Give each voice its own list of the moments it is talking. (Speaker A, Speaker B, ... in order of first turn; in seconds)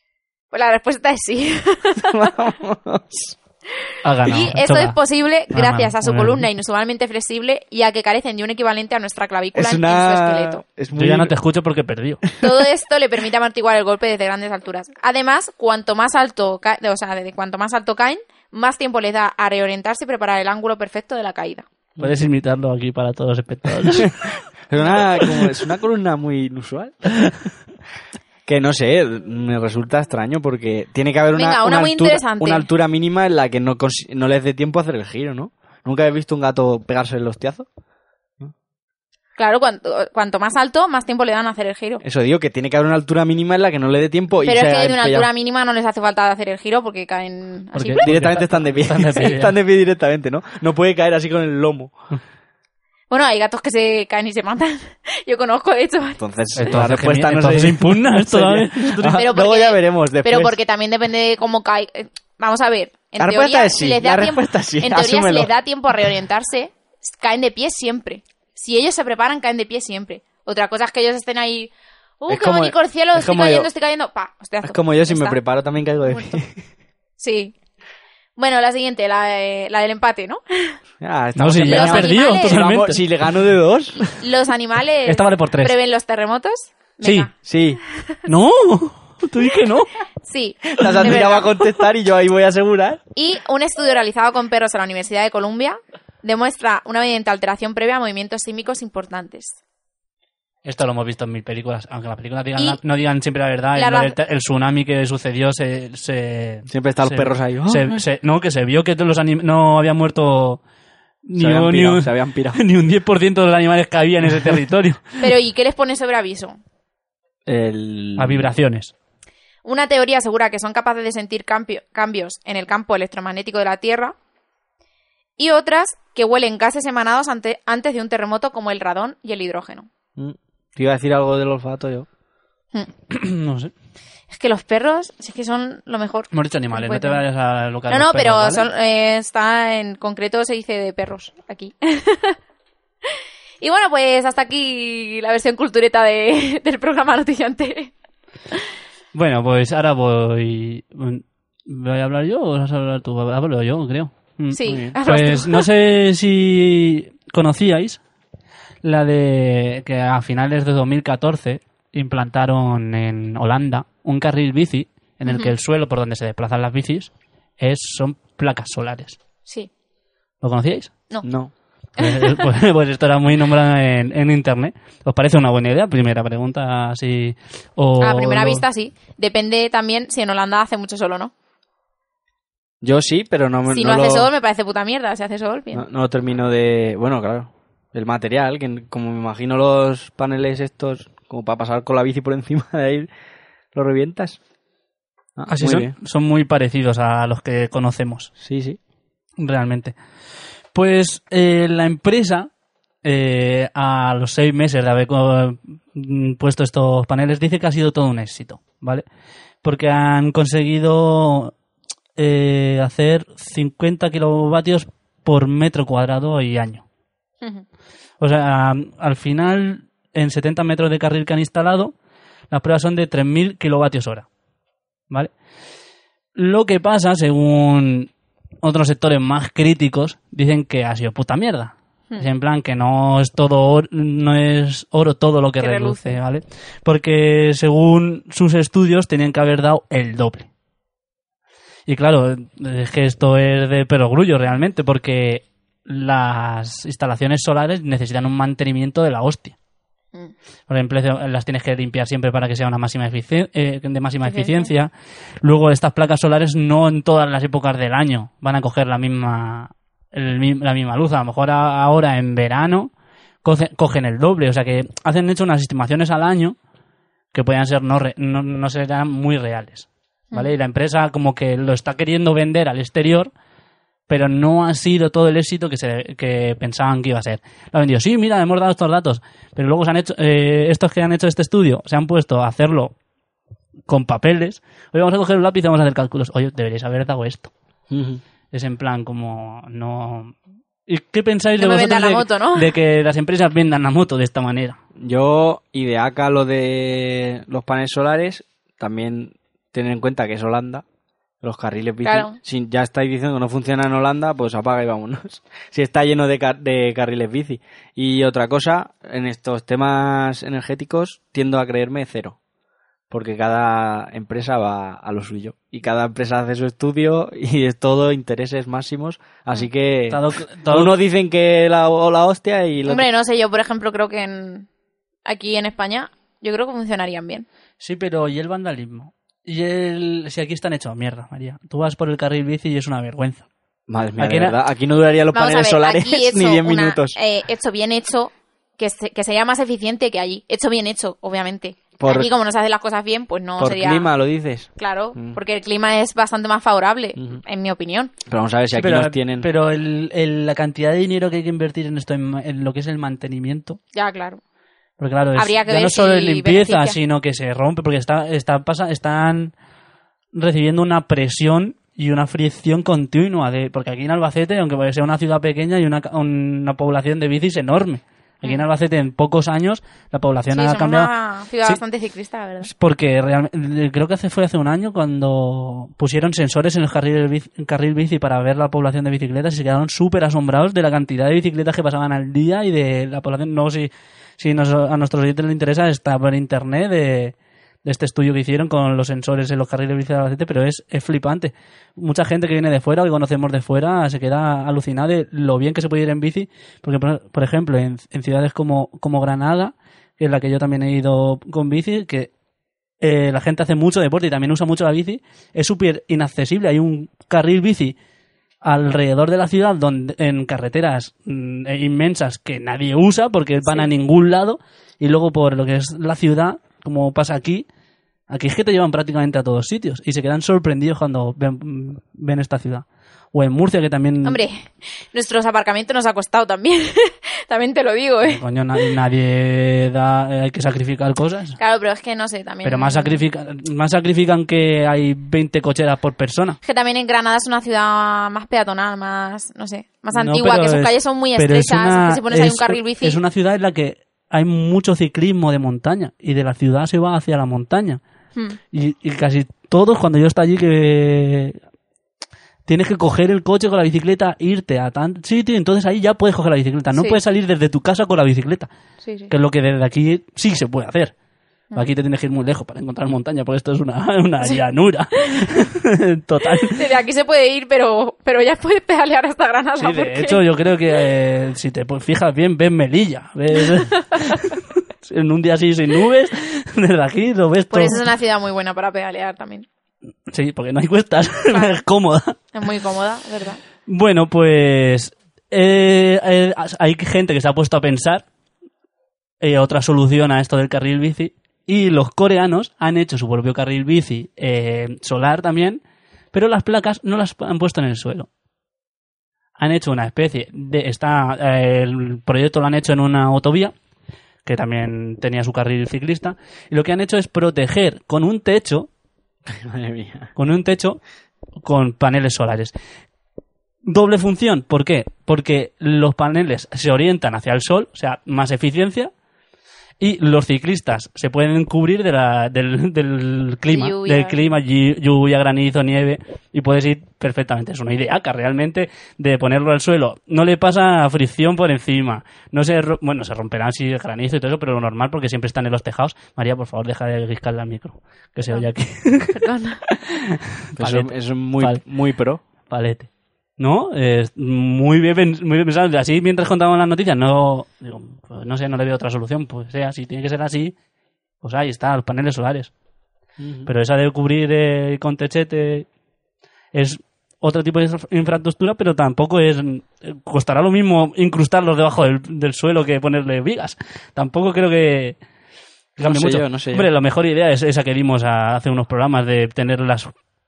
Speaker A: 0.5-2.1, 4.3-10.6, 12.4-21.7, 31.3-32.7, 39.4-42.0, 44.4-48.1, 53.1-56.2, 59.1-75.4, 76.0-76.4, 77.2-77.5, 78.4-80.8, 81.7-82.6, 84.0-87.3, 90.2-91.7, 93.2-99.6, 103.8-104.2, 115.2-116.6, 119.7-124.2, 125.4-129.9, 134.3-137.2, 137.9-142.4, 143.6-147.9, 154.5-155.7, 165.3-165.5, 172.0-172.4, 178.0-181.3, 183.7-185.8, 235.6-236.2, 254.2-254.7, 291.6-292.7, 302.0-302.4, 322.9-324.7, 325.3-327.5, 335.3-344.1, 344.8-348.1, 353.9-354.4, 355.4-357.0, 370.5-372.7, 424.2-428.4, 431.6-433.2, 436.6-443.2, 456.9-457.2, 459.0-459.3, 466.6-470.4, 473.6-474.4, 477.7-479.7, 481.5-481.8, 482.5-483.6, 523.7-524.5, 539.3-539.8
Speaker B: 2.0-3.4, 9.5-11.3, 24.7-27.2, 28.5-37.7, 42.0-45.3, 48.0-51.9, 56.2-60.6, 63.2-65.5, 72.3-73.7, 74.6-76.6, 81.0-84.1, 87.4-87.8, 90.8-93.0, 106.7-108.0, 111.4-112.6, 117.5-118.5, 130.2-132.1, 154.7-154.9, 171.2-171.5, 182.8-184.3, 185.7-193.1, 193.7-194.4, 195.4-195.9, 198.4-198.8, 287.9-288.2, 295.0-300.8, 301.4-312.4, 313.1-323.1, 333.9-337.2, 342.0-342.3, 343.6-345.4, 348.3-349.5, 509.5-510.3, 540.8-542.4, 553.4-553.7, 566.0-566.9
Speaker C: 4.0-5.0, 5.5-6.5, 10.9-12.2, 22.0-24.4, 47.8-49.6, 56.6-59.2, 81.4-83.0, 85.1-85.8, 87.0-87.3, 88.2-89.9, 100.7-110.6, 111.2-115.0, 118.2-118.9, 133.1-133.7, 136.3-138.7, 149.1-158.0, 158.8-169.2, 170.4-170.9, 172.0-178.6, 195.5-198.3, 199.4-199.9, 200.7-202.5, 203.0-209.1, 209.6-211.5, 212.2-216.8, 218.2-221.9, 222.5-224.2, 226.3-228.1, 228.6-240.5, 241.9-249.6, 250.7-262.9, 263.4-266.6, 267.3-273.3, 274.1-282.9, 283.9-287.5, 288.5-290.3, 290.9-294.8, 320.1-320.9, 327.8-333.5, 334.2-334.6, 348.7-353.8, 355.0-359.5, 360.3-371.1, 372.6-402.3, 403.0-408.0, 408.6-417.7, 418.3-424.4, 428.2-431.6, 432.6-436.6, 440.1-448.0, 448.7-451.6, 452.7-458.7, 459.3-461.1, 461.8-466.8, 469.8-478.1, 480.3-482.4, 483.9-488.2, 489.4-495.8, 496.3-498.3, 499.6-503.7, 504.4-508.9, 510.4-511.0, 511.6-512.7, 513.9-519.1, 520.0-541.8, 542.7-550.8, 551.4-552.7, 553.7-555.9, 556.7-565.2, 566.0-570.1